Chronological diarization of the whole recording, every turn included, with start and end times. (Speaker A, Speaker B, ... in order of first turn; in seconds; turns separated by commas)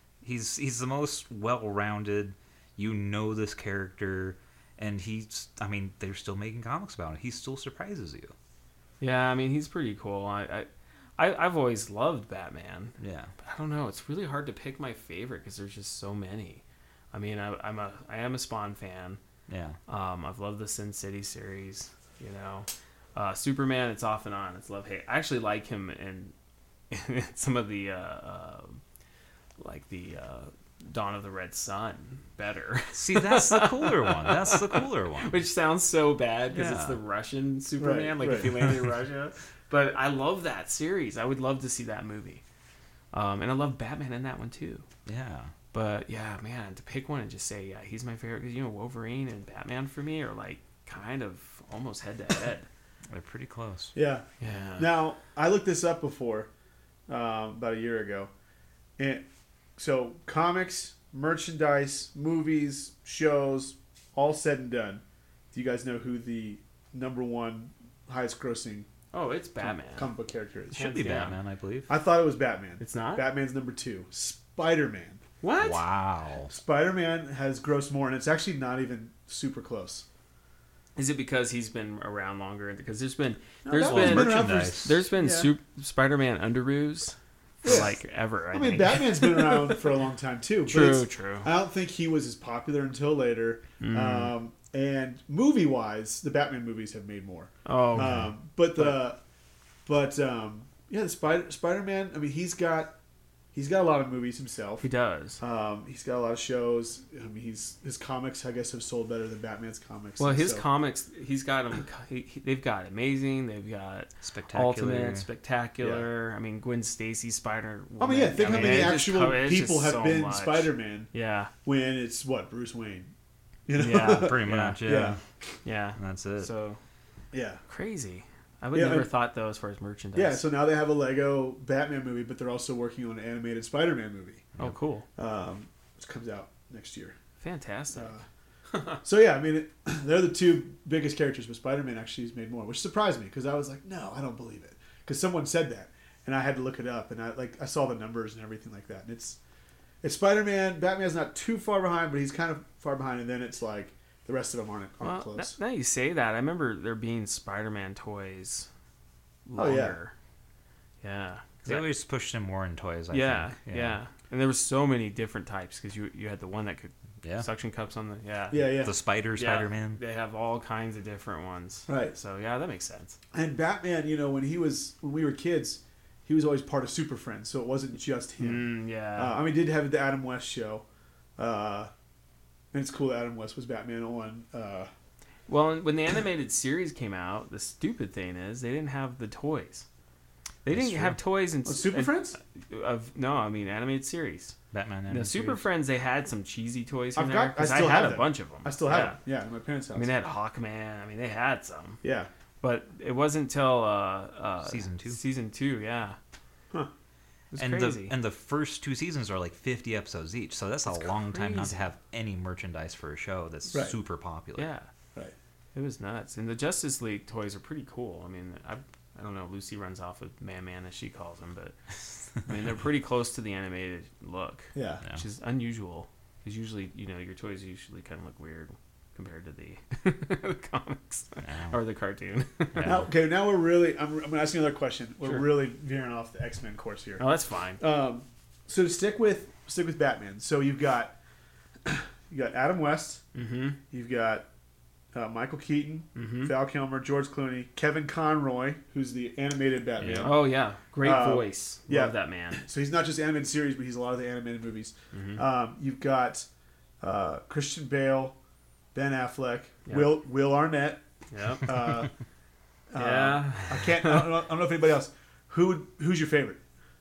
Speaker A: 0.2-8.3, Speaker B: 9.0-19.2, Speaker A: 13.0-13.3, Speaker A: 19.5-19.8, Speaker B: 19.9-26.3, Speaker B: 26.9-28.8, Speaker B: 29.6-42.4, Speaker A: 32.9-35.4, Speaker A: 36.5-37.0, Speaker C: 37.8-38.5, Speaker B: 43.1-44.8, Speaker A: 45.0-45.5, Speaker B: 45.7-52.7, Speaker A: 53.1-53.9, Speaker C: 53.9-54.3, Speaker B: 54.4-55.0, Speaker C: 54.8-56.5, Speaker C: 57.1-58.3, Speaker C: 59.0-59.2, Speaker C: 59.8-68.9, Speaker B: 69.1-70.1, Speaker C: 69.6-70.9, Speaker B: 70.7-71.3, Speaker A: 70.7-71.9, Speaker C: 71.9-75.2, Speaker B: 72.8-73.3, Speaker B: 75.4-75.8, Speaker A: 75.6-76.5, Speaker C: 76.5-80.0, Speaker B: 81.0-89.8, Speaker C: 83.6-85.5, Speaker A: 83.8-85.0, Speaker C: 87.6-88.0, Speaker C: 88.5-99.2, Speaker B: 90.7-91.5, Speaker B: 93.8-94.3, Speaker B: 97.6-99.0, Speaker A: 97.9-98.3, Speaker C: 99.8-103.0, Speaker C: 103.5-104.8, Speaker B: 104.8-105.4, Speaker C: 105.4-110.6, Speaker B: 110.2-121.5, Speaker A: 114.2-115.3, Speaker C: 115.8-116.1, Speaker C: 118.0-121.1, Speaker A: 118.3-118.9, Speaker C: 121.6-123.1, Speaker C: 123.7-125.2, Speaker B: 123.7-124.8, Speaker A: 124.0-125.2, Speaker B: 125.6-126.8, Speaker A: 126.0-126.5, Speaker C: 127.3-127.6, Speaker B: 127.7-130.4, Speaker C: 128.7-129.1, Speaker C: 130.1-134.5, Speaker B: 134.6-135.1, Speaker C: 135.2-137.1, Speaker B: 137.4-138.1, Speaker C: 137.9-138.2, Speaker C: 139.0-149.4, Speaker C: 150.0-155.6, Speaker B: 155.0-158.7, Speaker B: 159.4-160.1, Speaker C: 159.6-160.0, Speaker B: 161.0-161.8, Speaker A: 161.6-164.0, Speaker B: 163.1-173.2, Speaker A: 167.2-167.5, Speaker C: 168.5-168.9, Speaker A: 168.7-170.0, Speaker C: 171.9-172.2, Speaker C: 173.3-180.8, Speaker B: 178.4-179.4, Speaker C: 181.4-181.9, Speaker C: 182.7-184.9, Speaker B: 185.5-189.8, Speaker B: 190.6-194.6, Speaker A: 190.7-191.2, Speaker C: 191.6-192.3, Speaker A: 194.7-195.6, Speaker B: 195.1-199.2, Speaker C: 197.2-200.1, Speaker B: 199.9-202.0, Speaker C: 202.0-202.3, Speaker B: 202.6-206.2, Speaker A: 204.6-205.2, Speaker B: 207.5-208.2, Speaker A: 207.6-214.7, Speaker B: 210.9-211.8, Speaker B: 214.6-214.9, Speaker B: 215.7-221.8, Speaker B: 222.4-233.1, Speaker C: 224.7-225.0, Speaker A: 231.4-231.7, Speaker C: 232.8-237.2, Speaker B: 235.2-235.5, Speaker B: 237.2-237.8, Speaker C: 237.8-241.2, Speaker C: 241.8-243.2, Speaker B: 243.3-243.8, Speaker C: 243.9-244.4, Speaker C: 245.1-250.4, Speaker B: 246.1-246.5, Speaker A: 250.0-250.3, Speaker B: 250.1-252.6, Speaker C: 251.0-256.5, Speaker B: 255.1-255.4, Speaker C: 257.0-258.4, Speaker C: 258.9-261.0, Speaker B: 259.9-260.2, Speaker B: 261.3-262.1, Speaker C: 261.6-262.1, Speaker C: 262.9-266.6, Speaker B: 263.0-264.4